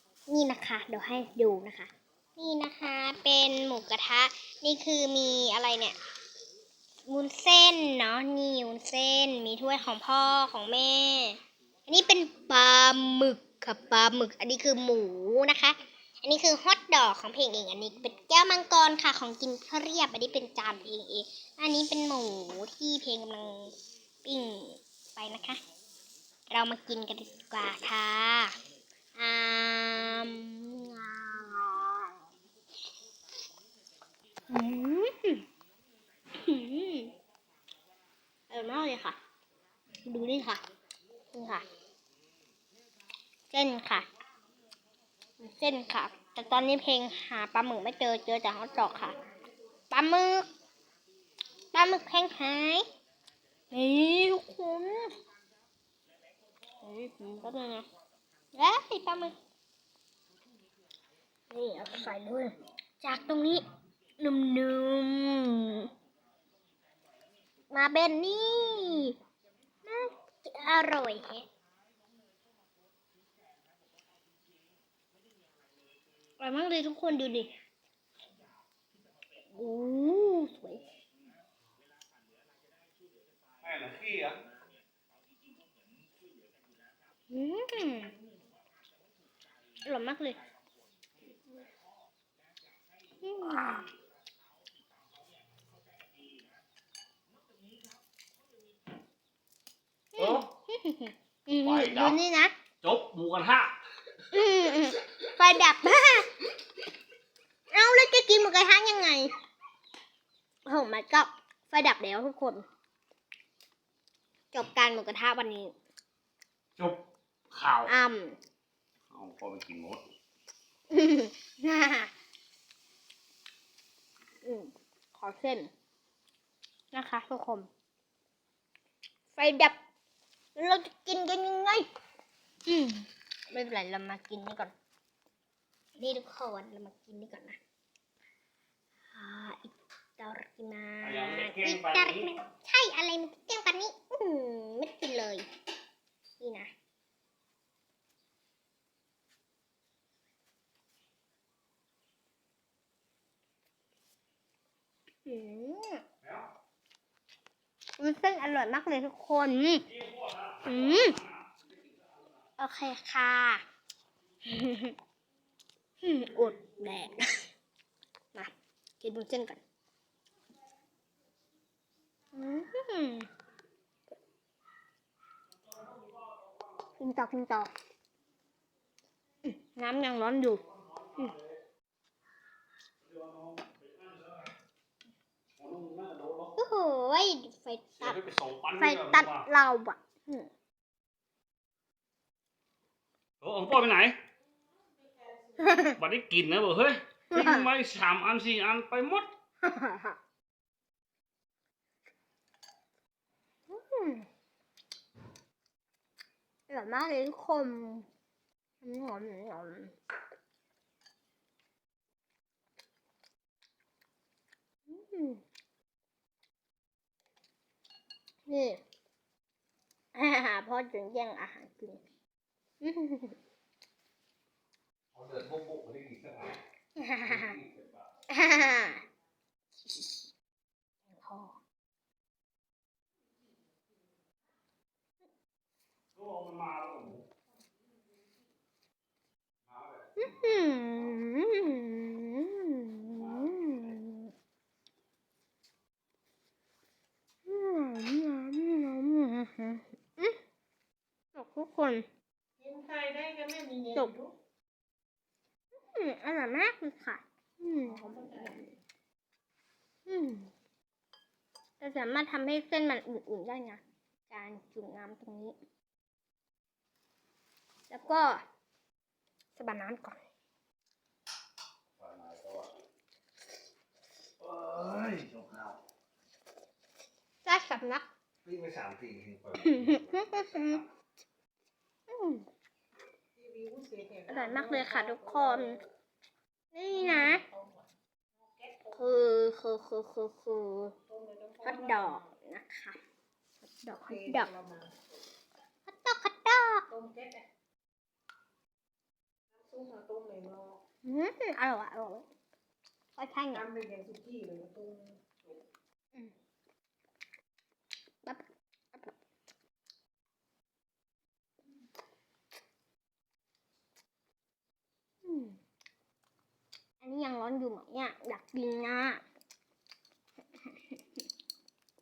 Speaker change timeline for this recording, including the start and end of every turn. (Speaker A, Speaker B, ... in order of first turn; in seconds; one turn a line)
Speaker A: 0.3-6.0
Speaker A: 7.1-23.7
Speaker A: 24.2-25.6
Speaker A: 26.5-28.5
Speaker A: 29.2-32.2
Speaker A: 34.5-35.5
Speaker A: 36.3-37.1
Speaker A: 38.5-39.2
Speaker A: 40.0-40.6
Speaker A: 41.3-41.7
Speaker A: 43.5-44.1
Speaker A: 45.4-49.2
Speaker A: 49.9-50.5
Speaker A: 51.7-52.9
Speaker A: 53.7-55.1
Speaker A: 56.8-57.9
Speaker A: 58.5-59.4
Speaker A: 61.5-63.6
Speaker A: 64.2-65.9
Speaker A: 67.7-69.2
Speaker A: 69.8-71.5
Speaker A: 76.4-77.5
Speaker A: 79.5-80.8
Speaker B: 83.6-84.4
Speaker A: 87.3-88.1
Speaker A: 89.8-90.4
Speaker A: 93.2-93.9
Speaker A: 100.1-102.5
Speaker B: 100.2-100.5
Speaker B: 101.6-102.2
Speaker B: 102.8-103.8
Speaker A: 104.3-106.3
Speaker A: 107.7-109.3
Speaker A: 110.7-112.7
Speaker A: 114.5-115.7
Speaker B: 116.8-117.9
Speaker A: 117.9-118.4
Speaker B: 119.1-120.0
Speaker A: 120.9-122.1
Speaker A: 124.4-125.7
Speaker A: 126.9-127.7
Speaker A: 129.3-129.8
Speaker A: 130.6-131.9
Speaker A: 132.7-134.7
Speaker A: 136.0-137.6
Speaker A: 139.1-145.4
Speaker B: 141.0-142.3
Speaker A: 146.4-146.7
Speaker A: 155.3-156.0
Speaker B: 156.2-156.5
Speaker A: 158.0-159.9
Speaker B: 159.9-161.6
Speaker A: 160.7-161.2
Speaker A: 162.6-163.6
Speaker A: 164.4-165.0
Speaker A: 166.0-167.4
Speaker A: 168.3-169.6
Speaker A: 172.3-173.3
Speaker A: 177.0-177.7
Speaker A: 179.4-180.6
Speaker B: 180.9-181.4
Speaker B: 183.0-184.5
Speaker B: 185.6-186.6
Speaker A: 186.6-188.2
Speaker B: 188.0-189.5
Speaker A: 188.8-190.5
Speaker B: 193.4-194.1
Speaker A: 195.6-196.0
Speaker B: 196.0-199.3
Speaker A: 197.3-197.7
Speaker A: 199.6-200.2
Speaker A: 203.7-204.3
Speaker A: 206.7-208.1
Speaker A: 208.8-209.9
Speaker A: 214.9-215.4
Speaker A: 218.5-218.8
Speaker A: 220.2-222.0
Speaker A: 222.8-223.4
Speaker B: 225.1-226.6
Speaker A: 227.0-227.6
Speaker B: 227.3-228.1
Speaker A: 228.3-229.0
Speaker A: 229.8-230.3
Speaker A: 231.1-231.6
Speaker B: 236.2-237.3
Speaker B: 239.7-240.8
Speaker A: 240.2-244.3
Speaker B: 243.2-243.9
Speaker A: 247.5-250.4
Speaker A: 251.3-252.1
Speaker C: 252.6-254.3
Speaker A: 255.8-258.8
Speaker C: 258.1-258.3
Speaker A: 260.1-260.5
Speaker A: 261.8-265.6
Speaker A: 267.9-268.4
Speaker A: 269.6-270.2
Speaker B: 272.0-272.7
Speaker B: 274.4-275.8
Speaker A: 277.4-278.1
Speaker B: 278.4-280.8
Speaker A: 279.6-280.8
Speaker A: 282.1-282.5
Speaker C: 283.4-285.7
Speaker A: 284.3-285.8
Speaker A: 286.7-287.4
Speaker C: 287.0-287.8
Speaker C: 288.6-289.0
Speaker A: 288.9-291.0
Speaker C: 291.1-292.2
Speaker A: 291.6-293.0
Speaker A: 293.8-294.5
Speaker C: 294.1-295.0
Speaker A: 295.9-296.9
Speaker C: 296.9-297.5
Speaker C: 299.5-300.8
Speaker A: 301.0-302.3
Speaker A: 303.2-303.7
Speaker C: 303.6-305.3
Speaker A: 308.2-309.1
Speaker A: 315.2-315.6
Speaker A: 317.0-319.2
Speaker A: 320.6-321.2